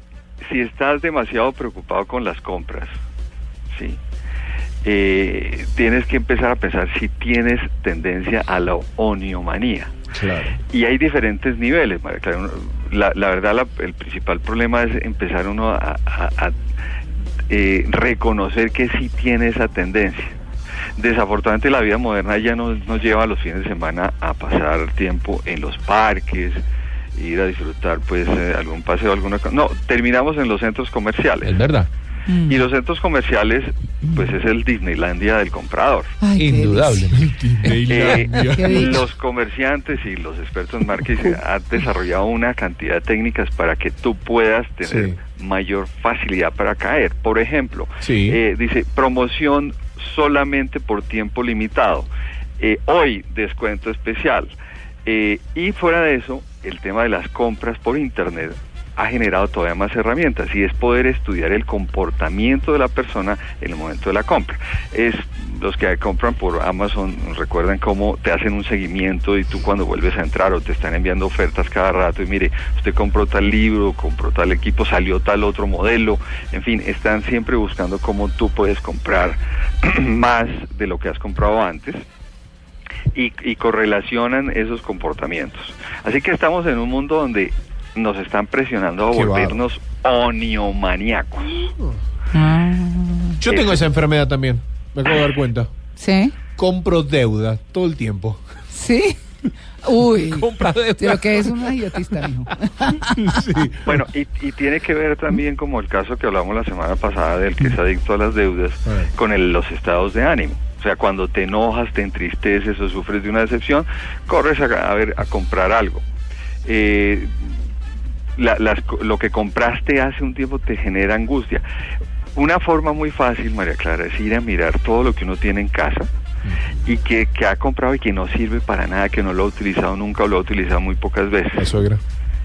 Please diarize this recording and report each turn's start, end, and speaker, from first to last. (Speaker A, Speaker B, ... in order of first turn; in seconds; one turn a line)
Speaker A: 0.4-2.9
Speaker A: 3.7-4.0
Speaker A: 4.8-9.9
Speaker B: 10.1-10.6
Speaker A: 10.7-16.6
Speaker A: 17.5-20.4
Speaker A: 21.0-26.6
Speaker A: 27.1-31.6
Speaker C: 31.4-31.9
Speaker D: 32.3-32.6
Speaker A: 32.5-36.1
Speaker D: 34.0-34.3
Speaker D: 36.2-37.1
Speaker C: 36.4-37.2
Speaker B: 37.1-39.0
Speaker A: 37.9-54.5
Speaker D: 38.5-39.0
Speaker B: 44.9-45.2
Speaker B: 48.0-48.4
Speaker A: 55.1-82.0
Speaker A: 83.1-91.7
Speaker B: 89.1-89.6
Speaker D: 92.3-93.4
Speaker B: 93.4-95.7
Speaker A: 93.5-93.9
Speaker D: 96.0-96.4
Speaker B: 96.6-98.4
Speaker D: 98.7-99.2
Speaker D: 99.8-100.5
Speaker C: 100.4-101.8
Speaker D: 101.0-103.1
Speaker B: 103.1-104.0
Speaker A: 103.8-116.0
Speaker A: 116.7-117.5
Speaker A: 118.4-121.6
Speaker A: 122.3-126.1
Speaker A: 126.8-131.7
Speaker B: 131.6-132.0